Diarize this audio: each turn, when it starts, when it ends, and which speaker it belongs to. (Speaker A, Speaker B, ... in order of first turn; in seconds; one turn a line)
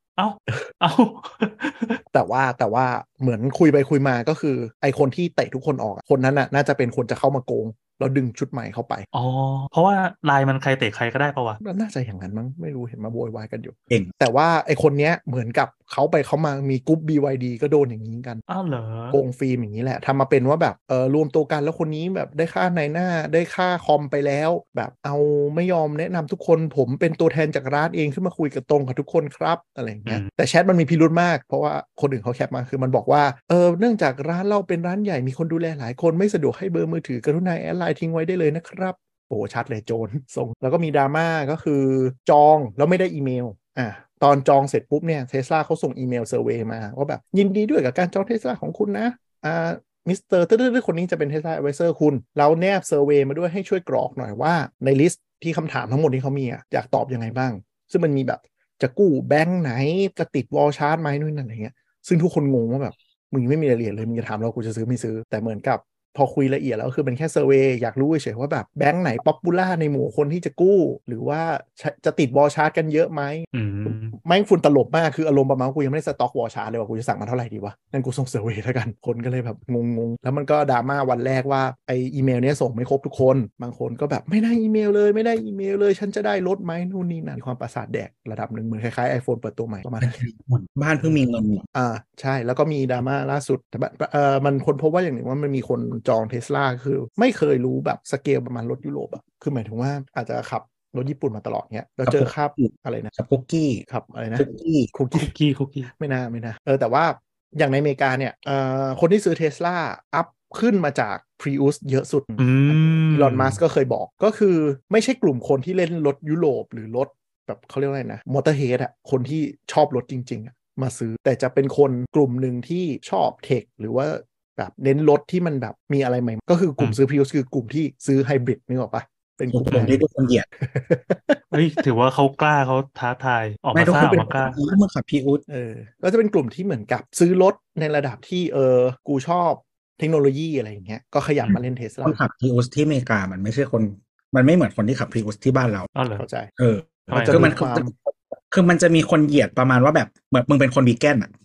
Speaker A: 0.2-2.0
Speaker B: 2.1-9.1
Speaker A: 9.1-11.6
Speaker B: 11.6-18.4
Speaker A: 18.5-19.2
Speaker B: 19.1-90.2
Speaker A: 73.5-74.2
Speaker C: 90.0-91.6
Speaker B: 91.7-103.1
Speaker C: 102.1-103.8
Speaker B: 103.9-105.3
Speaker C: 104.4-104.9
Speaker A: 105.1-105.9
Speaker B: 106.0-130.0
Speaker A: 112.4-113.6
Speaker C: 129.5-130.5
Speaker B: 130.6-131.6
Speaker A: 131.5-134.6
Speaker C: 133.8-135.4
Speaker B: 133.9-134.3
Speaker B: 135.5-142.2
Speaker C: 141.4-145.9
Speaker A: 146.0-146.2
Speaker B: 146.2-146.5
Speaker C: 146.6-151.3
Speaker B: 147.1-147.9
Speaker A: 147.1-147.5